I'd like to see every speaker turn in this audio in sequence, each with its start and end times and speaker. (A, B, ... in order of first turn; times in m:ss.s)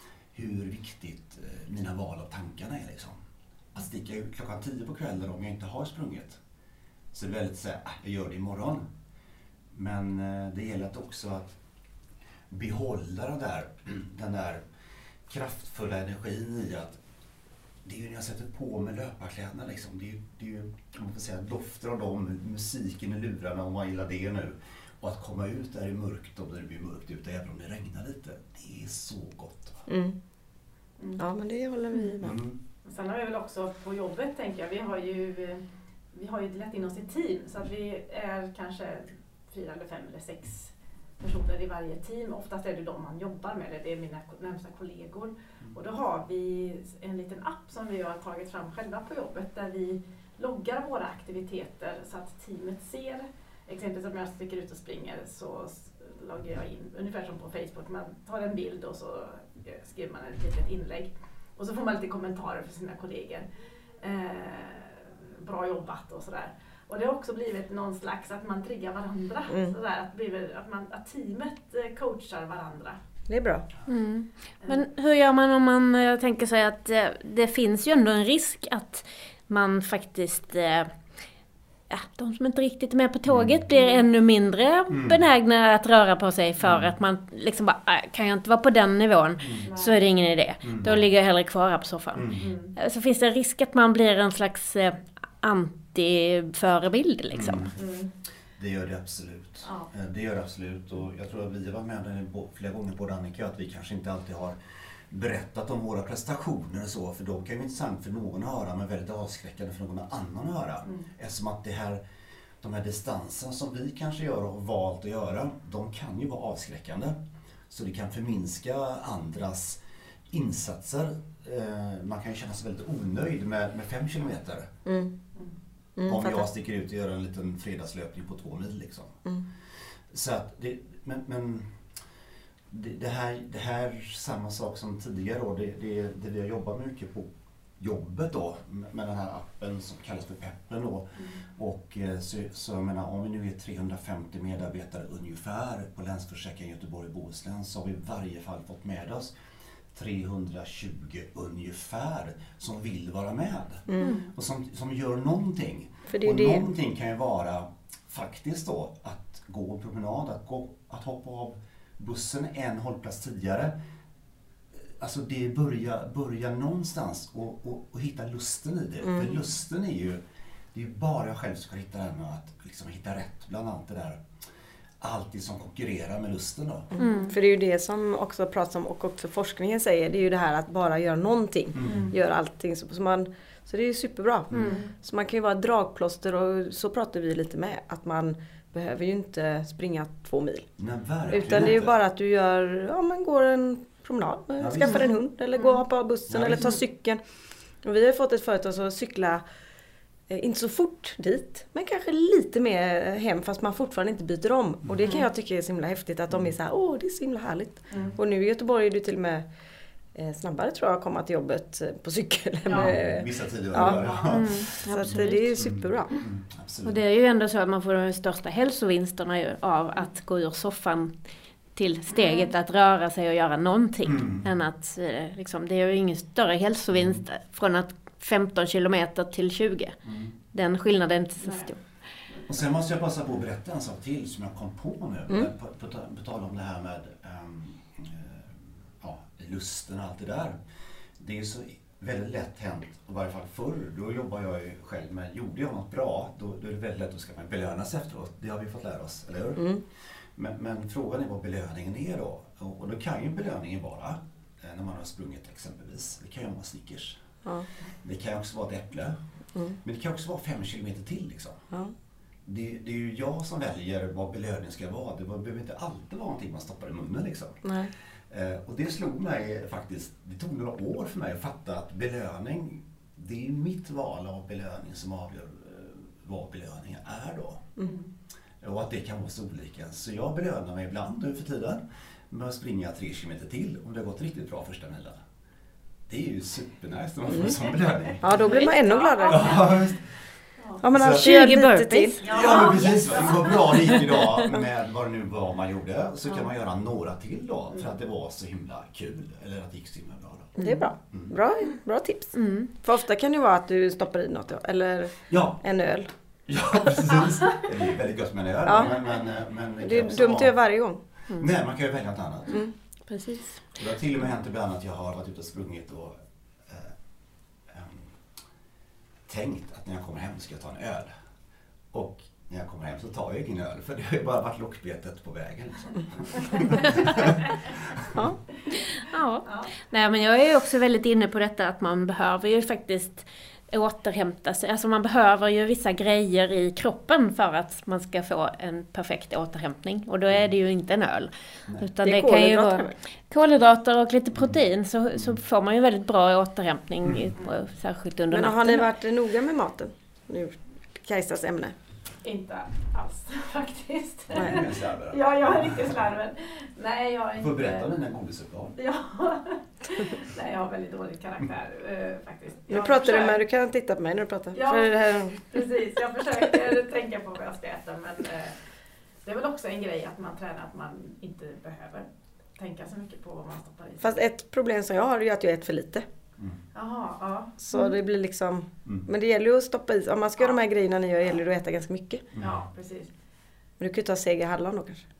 0:00.3-0:03.2 A
0:03.7-0:06.4 A
0:07.1-0:08.8 A
0:09.7-0:11.6 A
0:12.5-0:14.6 A
0:15.3-0:17.0 A
0:17.8-0:29.8 A
0:29.9-0:30.2 B
0:31.2-0:32.4 B
0:32.2-0:32.6 A
0:32.8-1:03.4 C
1:04.0-1:13.0 C
1:09.5-1:09.7 B
1:13.3-1:13.7 B
1:13.8-1:20.9 D
1:21.9-1:37.7 D
1:23.3-1:23.6 A
1:23.7-1:24.0 C
1:24.9-1:25.2 A
1:26.6-1:26.9 A
1:29.6-1:30.0 C
1:30.6-1:31.0 A
1:32.1-1:32.5 A
1:32.4-1:32.7 C
1:37.3-1:37.8 A
1:37.7-1:38.1 C
1:38.6-1:44.5 A
1:39.6-1:39.9 C
1:45.1-1:52.0 A
1:52.6-1:57.2 A
1:57.7-1:59.8 A
2:00.3-2:04.7 A
2:04.8-2:05.1 B
2:06.0-2:06.4 B
2:06.0-2:09.2 A
2:10.1-2:11.7 A
2:12.7-2:29.3 A
2:29.9-2:43.7 A
2:33.9-2:34.2 B
2:34.0-2:34.2 D
2:36.1-2:36.6 B
2:45.0-2:50.2 A
2:49.0-2:49.3 B
2:50.7-2:54.2 A
2:55.0-2:56.9 A
2:56.9-3:10.7 B
2:57.0-2:57.3 D
3:01.7-3:02.1 A
3:01.8-3:02.1 C
3:04.5-3:04.8 D
3:04.6-3:04.9 C
3:10.8-3:11.9 A
3:11.3-3:17.2 B
3:14.6-3:15.0 A
3:16.3-3:16.8 A
3:17.8-3:19.4 B
3:20.3-3:29.4 B
3:27.9-3:28.2 C
3:30.1-3:36.2 B
3:32.6-3:32.9 C
3:32.7-3:37.0 A
3:33.9-3:34.3 C
3:34.3-3:35.5 D
3:36.8-3:41.1 D
3:41.8-3:50.0 D
3:42.1-3:42.5 C
3:44.0-3:44.4 A
3:46.9-3:47.2 A
3:50.0-3:50.3 A
3:50.5-3:51.8 D
3:51.4-3:51.7 C
3:52.2-3:52.5 C
3:52.5-4:00.6 A
4:01.2-4:09.7 A
4:09.6-4:09.8 B
4:10.4-4:17.2 A
4:18.0-4:19.2 A
4:19.8-4:21.6 A
4:22.4-4:27.6 A
4:27.6-4:27.9 B
4:28.3-4:37.7 A
4:38.6-4:45.2 A
4:46.1-4:48.6 A
4:47.3-4:47.6 B
4:48.1-4:49.6 C
4:48.2-4:49.6 B
4:49.2-4:50.2 A
4:50.6-4:50.8 C
4:50.8-4:52.3 B
4:50.9-4:51.4 A
4:51.1-4:53.7 D
4:52.2-4:53.5 C
4:52.2-5:00.6 A
5:00.6-5:06.1 B
5:02.4-5:02.7 D
5:05.3-5:05.6 A
5:06.5-5:10.6 A
5:08.6-5:09.0 B
5:09.8-5:11.0 B
5:11.3-5:12.6 A
5:13.1-5:13.6 D
5:13.7-5:16.9 A
5:17.7-5:18.1 A
5:19.3-5:21.1 A
5:21.9-5:28.2 A
5:29.0-5:48.9 D
5:29.4-5:29.7 C
5:42.0-5:42.9 B
5:47.0-5:47.3 A
5:48.3-5:51.7 B
5:52.2-5:57.9 C
5:54.3-5:56.0 A
5:57.4-5:58.8 A
5:58.8-6:03.4 C
6:02.7-6:05.6 B
6:04.5-6:08.6 C
6:09.2-6:14.2 C
6:14.0-6:16.0 B
6:16.7-6:17.6 C
6:17.6-6:22.2 B
6:22.3-6:22.6 A
6:22.4-6:23.1 C
6:23.8-6:25.0 B